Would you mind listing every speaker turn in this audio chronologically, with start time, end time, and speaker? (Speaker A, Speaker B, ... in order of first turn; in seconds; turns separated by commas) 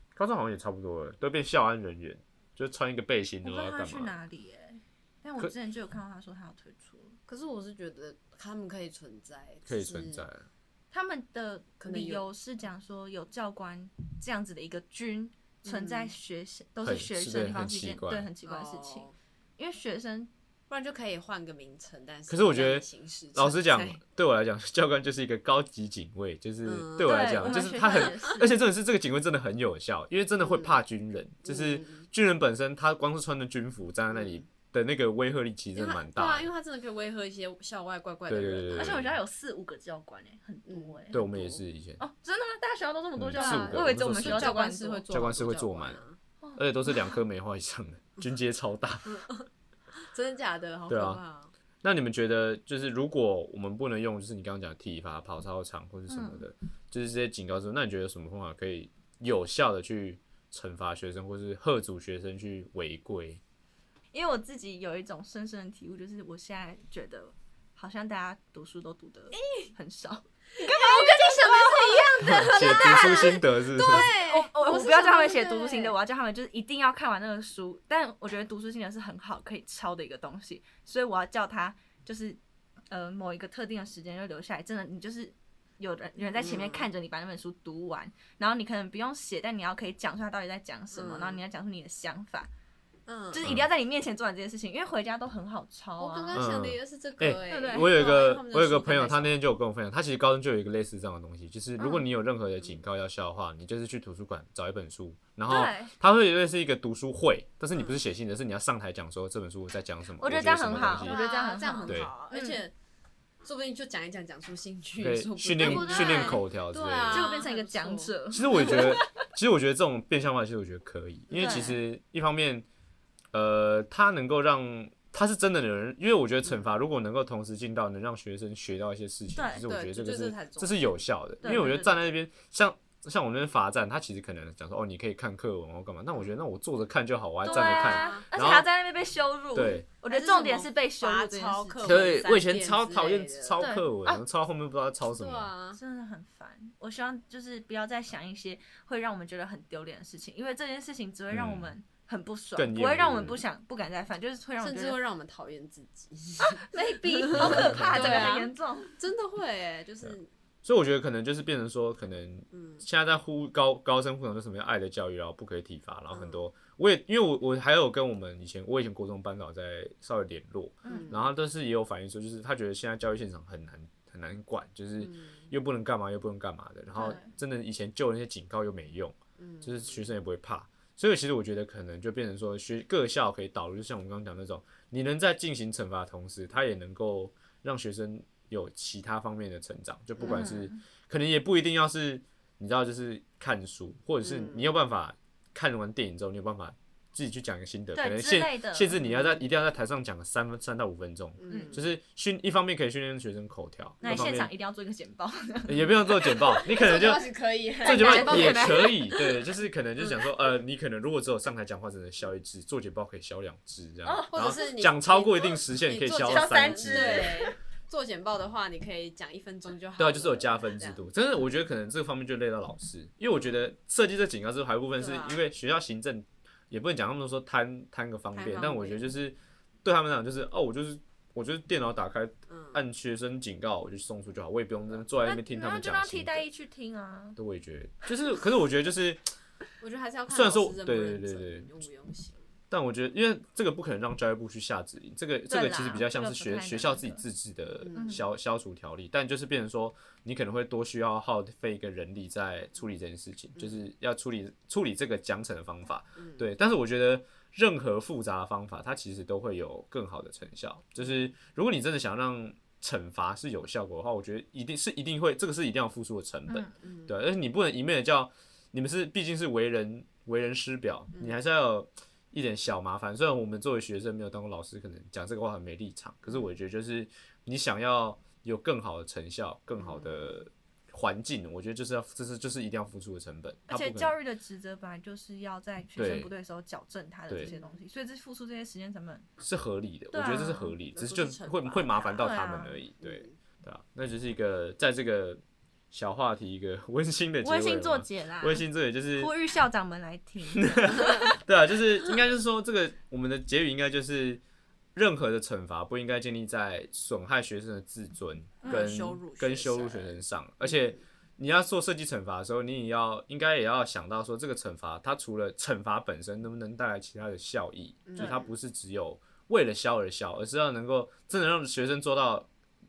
Speaker A: 0.1-4.2, Speaker B: 3.4-7.2, Speaker C: 7.3-10.3, Speaker A: 9.7-10.5, Speaker B: 10.9-20.3, Speaker C: 11.8-12.3, Speaker C: 15.6-16.1, Speaker A: 16.8-18.3, Speaker C: 18.4-19.1, Speaker C: 20.7-24.0, Speaker A: 22.3-36.5, Speaker C: 26.6-28.4, Speaker B: 27.0-28.6, Speaker C: 30.4-30.8, Speaker C: 31.4-32.1, Speaker C: 34.1-34.4, Speaker C: 35.7-39.0, Speaker A: 38.3-39.2, Speaker B: 38.7-41.4, Speaker C: 40.6-41.6, Speaker A: 41.1-42.0, Speaker B: 42.0-45.4, Speaker A: 43.1-46.0, Speaker C: 43.3-46.2, Speaker B: 46.4-47.2, Speaker A: 46.6-49.2, Speaker C: 49.0-49.5, Speaker C: 50.0-51.5, Speaker A: 50.9-51.2, Speaker A: 51.8-63.4, Speaker B: 56.1-56.5, Speaker B: 64.1-92.5, Speaker C: 70.6-76.0, Speaker A: 72.2-74.1, Speaker C: 86.3-86.9, Speaker C: 90.9-91.4, Speaker C: 93.0-93.5, Speaker B: 93.3-96.5, Speaker A: 93.4-93.7, Speaker C: 96.0-99.4, Speaker A: 96.3-111.2, Speaker B: 97.4-98.0, Speaker B: 101.8-102.0, Speaker B: 105.5-105.9, Speaker C: 107.7-108.0, Speaker B: 110.2-112.6, Speaker C: 111.0-112.7, Speaker A: 111.8-112.1, Speaker C: 113.4-118.9, Speaker A: 115.0-117.4, Speaker B: 115.6-116.5, Speaker B: 117.0-119.1, Speaker A: 118.3-122.7, Speaker C: 121.3-121.8, Speaker B: 121.3-121.8, Speaker A: 123.3-138.7, Speaker B: 129.3-129.6, Speaker C: 129.7-131.0, Speaker B: 131.4-132.1, Speaker B: 137.4-142.2, Speaker C: 137.5-138.3, Speaker A: 139.5-139.9, Speaker C: 140.1-143.7, Speaker A: 141.8-145.5, Speaker B: 143.6-144.2, Speaker C: 145.1-145.8, Speaker B: 145.7-155.0, Speaker A: 151.3-151.7, Speaker A: 152.6-153.4, Speaker C: 154.6-160.3, Speaker B: 156.4-158.9, Speaker A: 157.3-158.3, Speaker A: 160.0-204.5, Speaker C: 162.5-162.8, Speaker C: 166.1-166.4, Speaker B: 170.8-171.1, Speaker C: 170.9-171.3, Speaker C: 175.0-175.5, Speaker B: 176.9-177.3, Speaker C: 179.4-180.2, Speaker C: 190.2-190.5, Speaker B: 190.2-190.8, Speaker C: 194.2-194.7, Speaker B: 197.9-199.0, Speaker C: 199.0-199.5, Speaker C: 201.4-201.8, Speaker B: 201.5-201.8, Speaker B: 204.0-206.6, Speaker A: 205.7-207.2, Speaker C: 206.4-208.9, Speaker B: 207.8-209.4, Speaker A: 207.8-217.3, Speaker B: 214.0-214.8, Speaker C: 214.3-221.1, Speaker B: 216.2-217.6, Speaker A: 220.0-236.5, Speaker C: 223.3-223.6, Speaker C: 224.9-225.4, Speaker C: 228.3-229.1, Speaker C: 232.5-232.8, Speaker B: 235.2-237.4, Speaker A: 237.4-239.2, Speaker C: 239.8-242.4, Speaker A: 240.3-241.7, Speaker A: 242.7-284.1, Speaker B: 245.5-247.2, Speaker C: 247.8-248.2, Speaker B: 247.9-248.2, Speaker C: 253.5-253.8, Speaker C: 256.2-256.5, Speaker B: 266.5-266.7, Speaker C: 266.8-267.1, Speaker C: 279.8-280.4, Speaker B: 283.7-289.3, Speaker A: 285.9-286.3, Speaker C: 287.4-287.8, Speaker A: 289.4-299.3, Speaker B: 290.1-290.7, Speaker C: 290.9-292.0, Speaker B: 292.1-292.8, Speaker C: 293.0-293.3, Speaker B: 297.4-301.4, Speaker A: 300.6-304.4, Speaker A: 304.9-322.5, Speaker B: 308.6-308.9, Speaker C: 308.6-311.0, Speaker C: 318.1-318.5